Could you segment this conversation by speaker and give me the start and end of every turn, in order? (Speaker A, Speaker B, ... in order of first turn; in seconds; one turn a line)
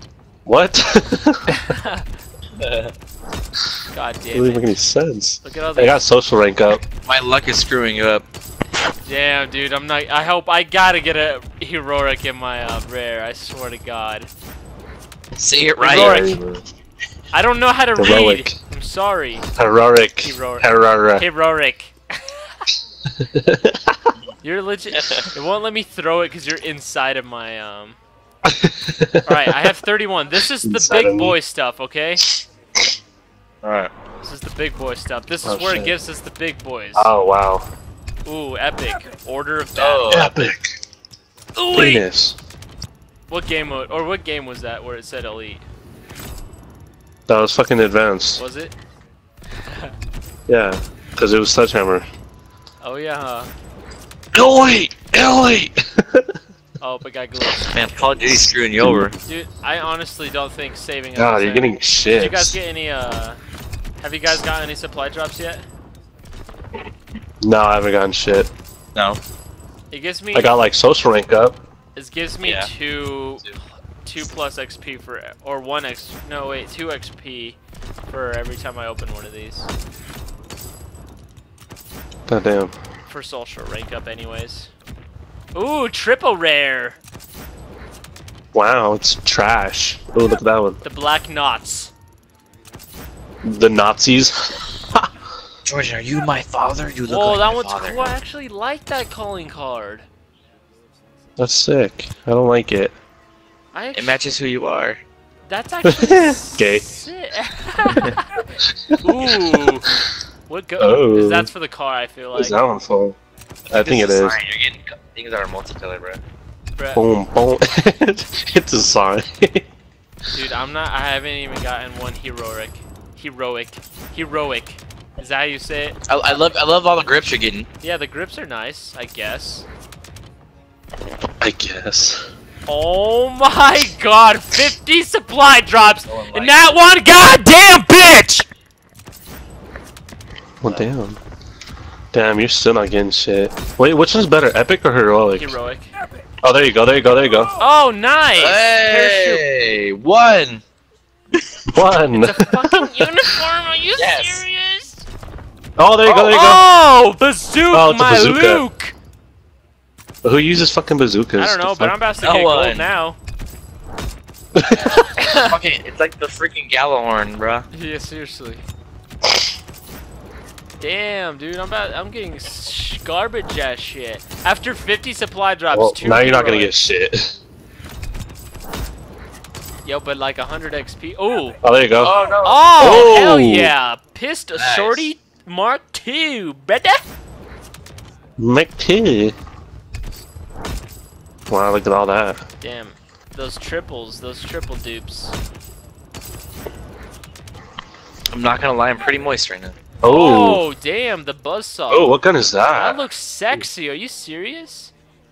Speaker A: 0.5-1.8
Speaker B: 1.5-2.1
Speaker C: 2.6-2.9
Speaker B: 3.9-4.8
Speaker A: 4.3-6.8
Speaker B: 5.4-6.0
Speaker C: 7.0-8.2
Speaker B: 9.1-14.3
Speaker C: 15.4-16.3
Speaker B: 15.8-16.4
Speaker A: 15.8-16.6
Speaker B: 17.3-19.5
Speaker A: 18.0-18.6
Speaker A: 19.6-21.3
Speaker B: 20.2-22.6
Speaker A: 23.1-24.0
Speaker B: 24.4-28.0
Speaker C: 24.9-25.3
Speaker A: 28.4-29.6
Speaker B: 29.3-32.2
Speaker A: 30.6-31.4
Speaker C: 33.6-33.9
Speaker B: 34.2-37.1
Speaker A: 35.4-35.9
Speaker A: 37.0-37.7
Speaker B: 38.2-40.2
Speaker C: 39.8-40.4
Speaker A: 40.1-40.7
Speaker B: 41.6-42.1
Speaker A: 41.7-42.4
Speaker B: 43.3-45.6
Speaker A: 47.3-48.4
Speaker B: 48.4-48.8
Speaker B: 49.6-49.9
Speaker A: 50.5-52.1
Speaker B: 52.8-53.5
Speaker A: 54.3-56.4
Speaker B: 56.8-57.9
Speaker C: 57.7-59.2
Speaker A: 58.8-59.1
Speaker B: 59.2-63.4
Speaker A: 61.2-62.6
Speaker B: 64.0-65.7
Speaker A: 67.4-68.5
Speaker B: 69.9-70.5
Speaker A: 70.3-71.6
Speaker B: 72.0-77.6
Speaker C: 72.4-72.7
Speaker B: 78.1-79.7
Speaker A: 82.3-82.7
Speaker B: 83.1-84.7
Speaker B: 85.5-87.0
Speaker A: 88.5-90.8
Speaker B: 90.8-91.9
Speaker A: 93.4-95.1
Speaker C: 95.7-98.1
Speaker B: 97.1-100.1
Speaker A: 101.4-103.0
Speaker B: 103.7-104.2
Speaker C: 104.0-105.0
Speaker B: 105.5-108.4
Speaker A: 105.8-107.0
Speaker A: 108.6-110.0
Speaker B: 109.0-112.6
Speaker A: 110.8-111.5
Speaker A: 112.3-113.2
Speaker A: 113.7-114.4
Speaker C: 113.7-116.2
Speaker B: 116.8-117.0
Speaker A: 117.0-119.7
Speaker B: 120.3-126.0
Speaker C: 126.1-127.7
Speaker B: 127.8-129.7
Speaker A: 131.4-132.3
Speaker B: 132.7-138.5
Speaker C: 135.8-136.8
Speaker A: 140.6-141.2
Speaker A: 142.1-145.5
Speaker B: 145.3-145.9
Speaker A: 146.4-147.5
Speaker B: 147.6-149.4
Speaker C: 148.4-150.6
Speaker A: 151.7-153.4
Speaker B: 152.1-155.1
Speaker C: 154.0-154.4
Speaker A: 155.8-156.7
Speaker C: 156.0-156.4
Speaker B: 156.3-158.9
Speaker A: 157.7-158.7
Speaker A: 160.2-161.9
Speaker B: 161.4-163.2
Speaker C: 162.2-162.9
Speaker A: 164.6-165.1
Speaker B: 165.2-165.6
Speaker C: 165.3-167.7
Speaker B: 167.7-168.7
Speaker B: 170.8-176.7
Speaker A: 175.7-177.3
Speaker B: 179.8-181.6
Speaker A: 181.6-182.2
Speaker C: 182.0-183.1
Speaker B: 182.4-187.1
Speaker A: 182.8-183.7
Speaker C: 184.6-185.1
Speaker A: 188.4-189.3
Speaker A: 191.5-192.4
Speaker B: 192.6-195.4
Speaker C: 198.3-199.8
Speaker A: 200.0-200.6
Speaker B: 200.1-202.2
Speaker A: 201.9-203.0
Speaker B: 202.7-204.9